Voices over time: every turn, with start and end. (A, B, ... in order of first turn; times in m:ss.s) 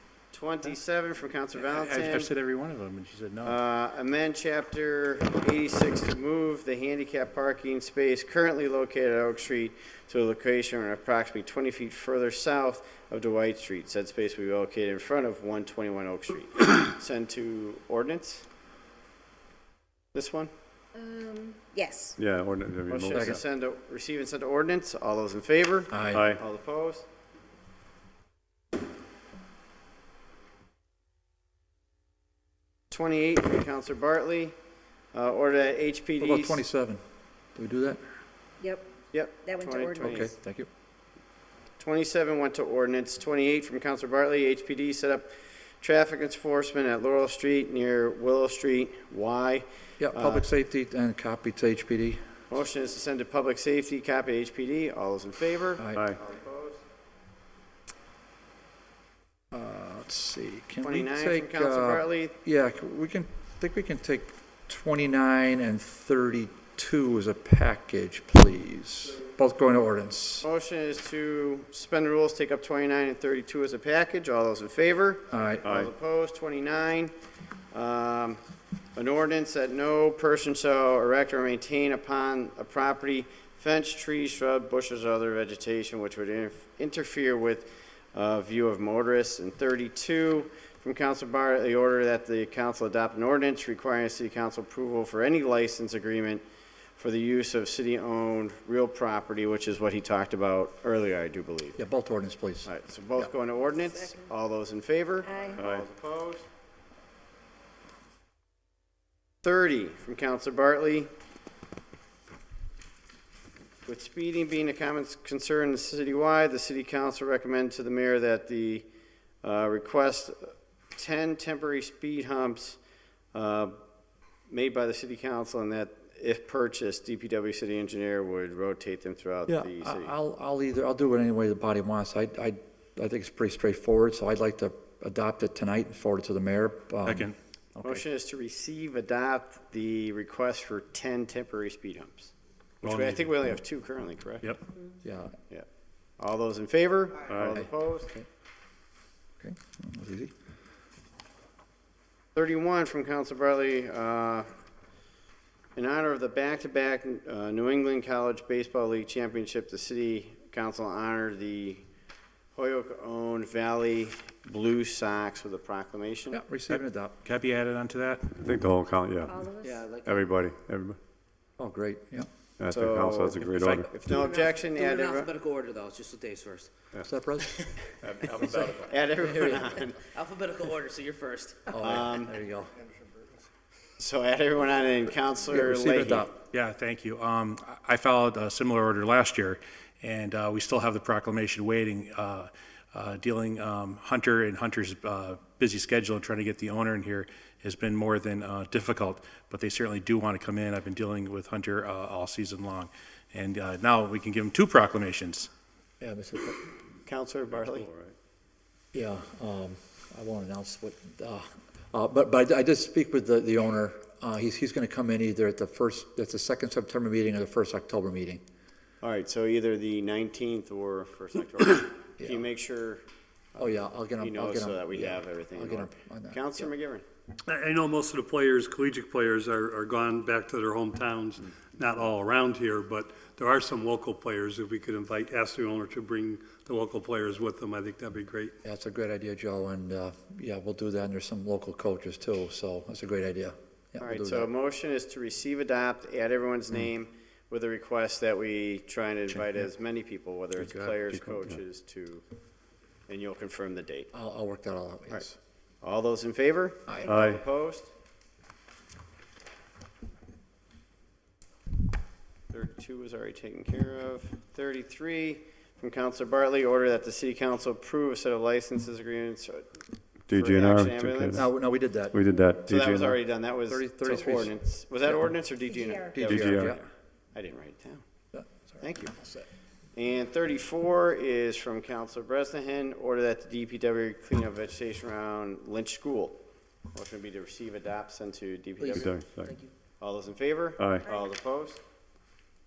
0:00.3-0:02.3 A
0:01.6-0:03.6 B
0:03.4-0:18.4 A
0:20.1-0:20.5 A
0:21.0-0:22.2 C
0:22.2-0:23.4 D
0:22.9-0:27.0 A
0:23.1-0:23.4 E
0:25.9-0:26.3 E
0:26.1-0:26.4 D
0:32.9-0:34.6 A
0:35.1-0:36.6 A
0:36.2-0:37.0 E
0:37.6-0:38.0 E
0:39.1-0:40.3 A
0:39.5-0:40.1 C
0:40.0-0:40.7 E
0:41.8-0:50.5 A
0:50.0-0:52.2 E
0:52.5-0:56.8 A
0:55.8-0:56.1 E
0:59.5-1:10.5 E
1:00.8-1:02.4 A
1:10.4-1:17.1 A
1:15.3-1:15.7 E
1:15.6-1:15.9 D
1:17.7-1:18.4 A
1:19.0-1:36.4 A
1:37.0-1:41.8 A
1:41.8-1:43.3 E
1:42.6-1:46.5 A
1:45.3-1:45.6 C
1:45.6-1:45.9 D
1:49.4-1:51.1 A
1:53.9-1:58.9 A
1:59.4-2:02.8 A
2:03.3-2:03.8 A
2:04.5-2:10.1 A
2:09.5-2:18.0 E
2:17.0-2:17.4 B
2:17.8-2:24.5 A
2:22.8-2:23.2 D
2:25.0-2:25.4 E
2:26.2-2:28.1 A
2:27.3-2:27.6 D
2:27.6-2:28.3 E
2:29.4-2:30.3 E
2:32.4-2:34.5 A
2:35.8-2:41.8 A
2:42.5-2:46.4 A
2:46.3-2:47.2 E
2:46.7-2:48.4 B
2:48.4-2:49.4 D
2:49.3-2:49.8 C
2:49.6-2:50.3 F
2:50.0-2:51.0 D
2:51.6-2:52.3 E
2:52.6-2:53.9 D
2:52.7-2:55.3 A
2:53.5-2:53.9 B
2:54.2-2:56.7 F
2:57.0-2:57.6 E
2:58.0-2:59.0 D
2:58.4-2:59.7 E
2:58.9-3:00.0 A
3:00.1-3:01.7 F
3:01.7-3:02.7 E
3:01.8-3:02.4 A
3:04.0-3:06.3 A
3:05.5-3:06.3 E
3:06.5-3:25.5 B
3:26.0-3:26.6 E
3:27.1-3:27.9 A
3:27.5-3:28.2 D
3:28.9-3:38.4 E
3:39.0-3:43.0 A
3:43.6-3:47.0 A
3:43.6-3:46.7 E
3:47.5-3:58.6 G
3:58.6-4:04.5 E
4:04.0-4:12.2 A
4:10.8-4:11.6 D
4:13.1-4:14.1 A
4:14.1-4:15.4 E
4:15.8-4:17.9 A
4:17.0-4:17.4 D
4:22.5-4:29.8 A
4:30.3-4:31.5 D
4:30.3-4:31.5 A
4:31.4-4:32.2 E
4:32.1-4:33.2 D
4:32.6-4:36.7 A
4:33.7-4:34.6 E
4:36.1-4:36.8 E
4:36.2-4:36.8 D
4:37.3-4:38.0 A
4:38.3-4:39.5 E
4:38.8-4:39.1 A
4:40.0-4:46.4 A
4:46.9-4:49.2 A
4:48.9-4:49.6 D
4:50.0-4:51.8 A
4:50.8-4:51.0 D